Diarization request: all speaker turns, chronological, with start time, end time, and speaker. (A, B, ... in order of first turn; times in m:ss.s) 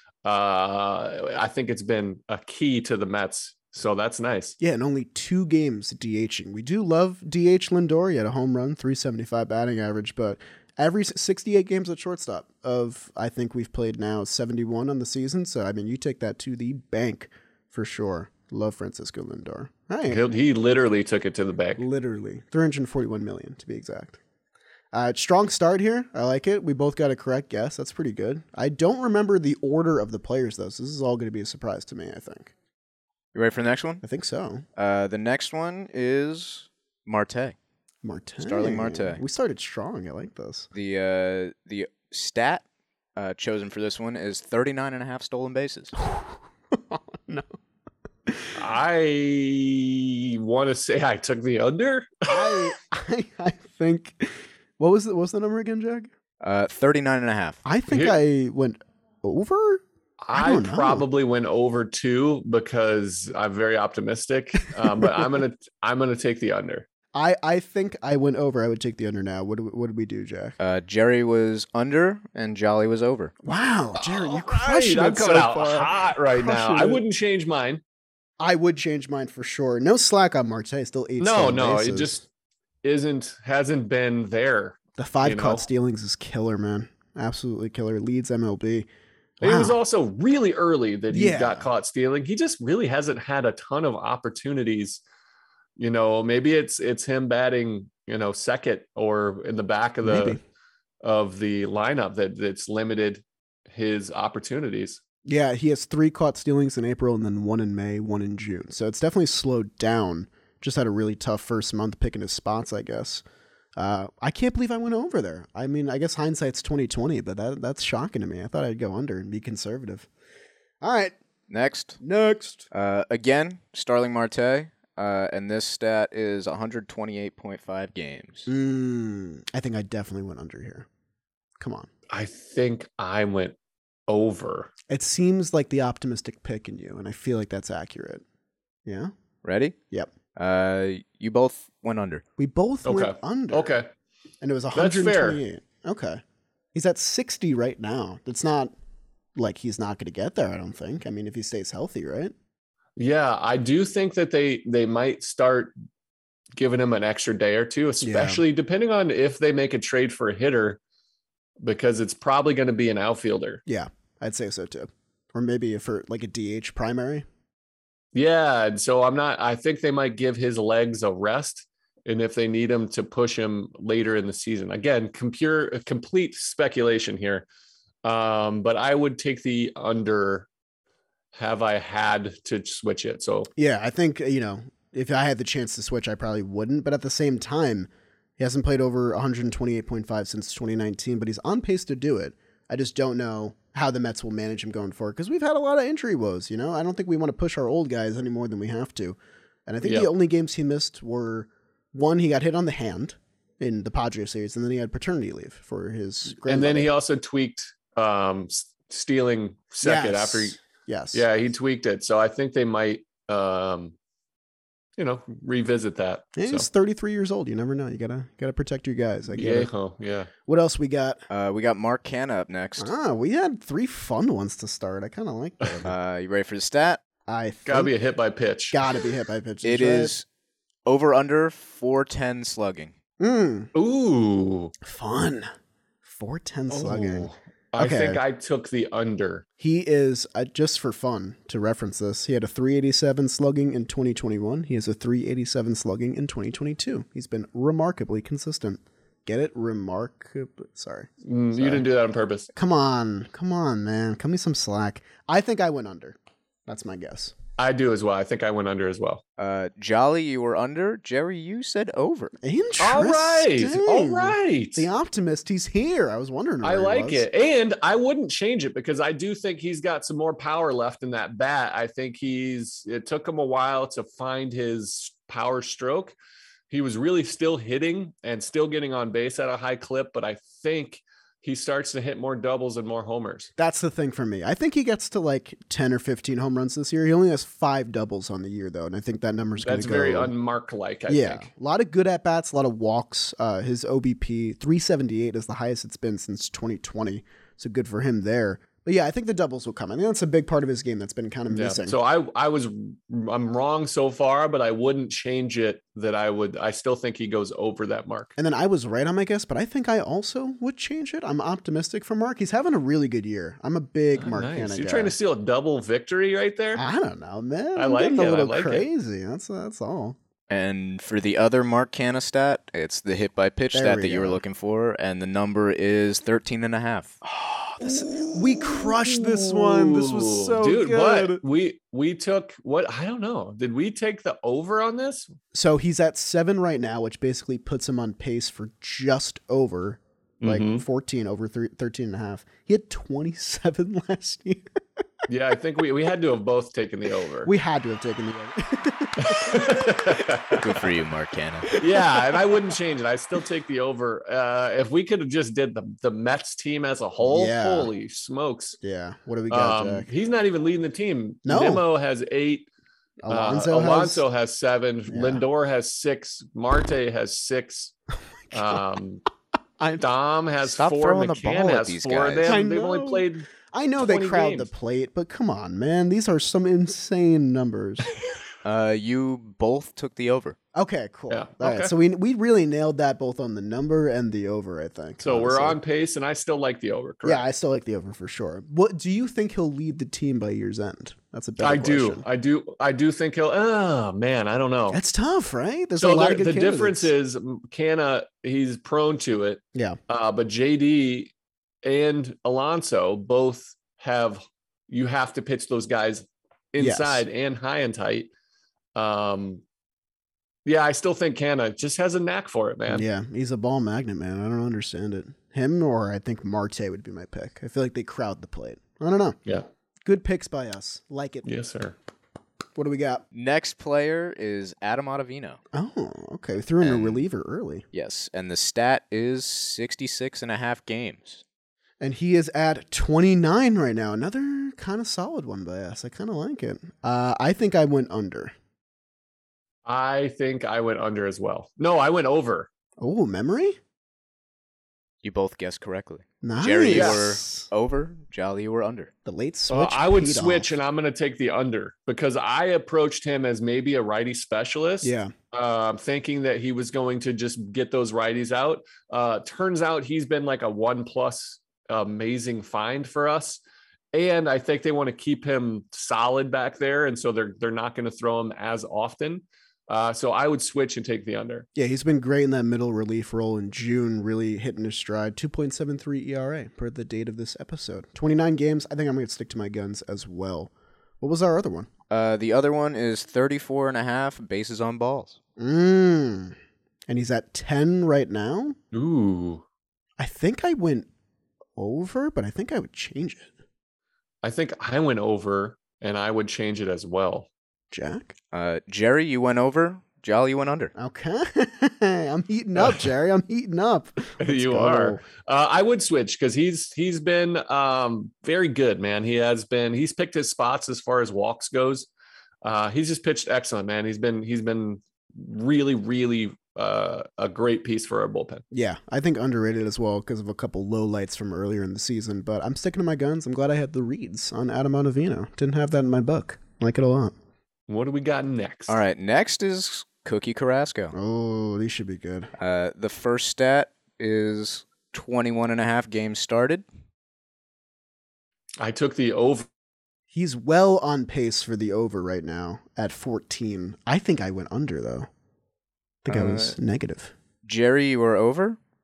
0:00.2-0:04.6 A
0:04.6-0:20.3 B
0:20.1-0:21.8 A
0:21.8-0:24.2 B
0:24.9-0:32.5 B
0:33.3-0:34.0 C
0:34.0-0:34.6 B
0:34.8-0:37.6 C
0:38.0-0:40.7 B
0:38.4-0:39.2 C
0:40.7-0:42.6 C
0:43.2-0:45.9 C
0:46.0-0:47.5 B
0:48.3-0:48.6 B
0:48.6-0:52.7 A
0:52.3-0:56.1 B
0:56.4-0:57.6 C
0:57.6-1:01.0 B
0:57.9-0:58.2 A
1:00.2-1:06.8 A
1:07.2-1:10.6 B
1:10.6-1:13.3 C
1:13.4-1:17.0 B
1:14.0-1:17.8 A
1:18.4-1:22.2 B
1:21.2-1:22.2 A
1:22.8-1:25.6 A
1:25.0-1:28.9 B
1:29.4-1:29.8 B
1:29.4-1:35.0 A
1:31.1-1:31.7 B
1:35.8-1:40.4 A
1:40.0-1:40.4 B
1:41.0-1:45.0 A
1:45.3-1:53.2 B
1:53.8-2:00.1 B
2:00.8-2:01.2 B
2:01.5-2:02.0 C
2:02.0-2:02.7 B
2:02.7-2:08.5 C
2:08.5-2:10.9 B
2:11.6-2:11.9 B
2:12.1-2:13.6 A
2:14.1-2:14.7 A
2:14.9-2:18.2 B
2:18.9-2:19.1 B
2:19.4-2:19.8 C
2:20.4-2:22.2 C
2:22.4-2:23.8 B
2:22.8-2:23.9 A
2:24.4-2:26.2 B
2:24.7-2:25.4 A
2:26.7-2:28.7 B
2:29.4-2:32.3 B
2:33.0-2:35.7 A
2:36.6-2:40.8 A
2:38.0-2:38.4 B
2:41.6-2:43.6 A
2:43.7-2:47.3 B
2:48.1-2:57.5 A
2:58.0-3:00.5 A
3:01.3-3:03.5 A
3:03.6-3:26.9 B
3:19.8-3:20.1 A
3:26.5-3:30.6 A
3:29.8-3:31.2 B
3:31.1-3:34.0 A
3:35.0-3:36.7 A
3:36.4-3:39.7 B
3:39.3-3:40.3 A
3:40.4-3:41.2 B
3:41.3-3:42.9 C
3:42.8-3:45.9 B
3:45.8-3:47.0 C
3:47.3-3:47.9 B
3:47.7-3:48.8 A
3:48.7-3:50.1 B
3:49.6-3:50.3 C
3:50.9-3:52.9 C
3:53.2-3:53.7 B
3:53.8-3:54.7 A
3:54.8-3:55.5 B
3:56.0-3:58.2 B
3:56.7-3:59.4 A
3:59.6-4:11.9 B
4:11.2-4:12.5 A
4:12.6-4:17.4 B
4:17.6-4:19.2 A
4:19.4-4:22.3 C
4:22.4-4:27.3 B
4:22.8-4:24.9 A
4:26.6-4:36.2 A
4:36.7-4:43.5 A
4:43.6-4:50.3 B
4:49.6-4:51.5 A
4:51.1-5:02.0 B
5:01.5-5:08.3 A
5:08.4-5:15.2 B
5:14.2-5:16.8 A
5:16.8-5:20.2 B
5:17.8-5:18.9 A
5:20.5-5:27.2 C
5:23.7-5:24.4 B
5:27.2-5:31.4 B
5:28.0-5:35.3 A
5:35.5-5:44.7 B
5:40.4-5:40.8 A
5:45.3-5:47.5 A
5:47.4-5:50.4 B
5:49.2-5:50.7 A
5:50.5-5:51.7 C
5:51.7-5:52.6 B
5:51.8-5:58.8 A
5:57.2-5:57.9 B
5:58.8-6:00.1 B
5:59.5-6:02.7 A
6:01.4-6:01.8 B
6:03.2-6:04.2 B
6:03.3-6:07.9 A
6:05.1-6:05.4 B
6:08.5-6:09.2 A
6:10.0-6:14.7 A
6:10.6-6:12.6 C
6:12.4-6:18.1 B
6:18.6-6:20.6 C
6:20.8-6:25.8 B
6:21.3-6:21.9 A
6:25.2-6:27.4 A
6:27.2-6:32.3 B
6:31.6-6:35.0 A
6:34.9-6:37.1 B
6:36.0-6:41.3 A
6:41.8-6:48.3 A
6:46.8-6:47.3 B
6:49.0-6:49.6 A
6:50.7-6:53.1 A
6:52.9-6:59.4 B
7:00.0-7:01.5 B
7:01.4-7:02.0 A
7:02.8-7:03.2 B
7:03.3-7:05.6 C
7:05.7-7:07.8 B
7:06.8-7:07.2 C
7:07.9-7:11.4 C
7:12.0-7:18.5 B
7:19.9-7:22.7 A
7:23.0-7:23.8 B
7:25.2-7:29.1 C
7:26.4-7:27.7 B
7:26.9-7:27.2 A
7:29.2-7:30.7 B
7:29.7-7:43.6 A
7:35.0-7:35.3 B
7:44.1-7:51.7 A
7:51.8-8:01.9 B
8:02.1-8:05.4 C
8:05.6-8:06.6 B
8:07.1-8:08.8 B
8:08.9-8:09.6 A
8:10.2-8:11.1 B
8:11.8-8:13.5 B
8:14.4-8:17.5 A
8:17.9-8:18.3 B
8:18.5-8:20.9 C
8:21.0-8:25.2 B
8:22.8-8:23.1 A
8:24.4-8:32.1 A
8:32.6-8:38.6 A
8:38.7-8:47.4 B
8:47.9-8:49.0 A
8:48.9-8:51.2 C
8:51.1-8:52.5 B
8:52.6-8:56.8 C
8:58.8-8:59.7 A
9:00.3-9:05.3 B
9:06.2-9:07.3 B
9:06.3-9:06.8 C
9:07.6-9:08.8 C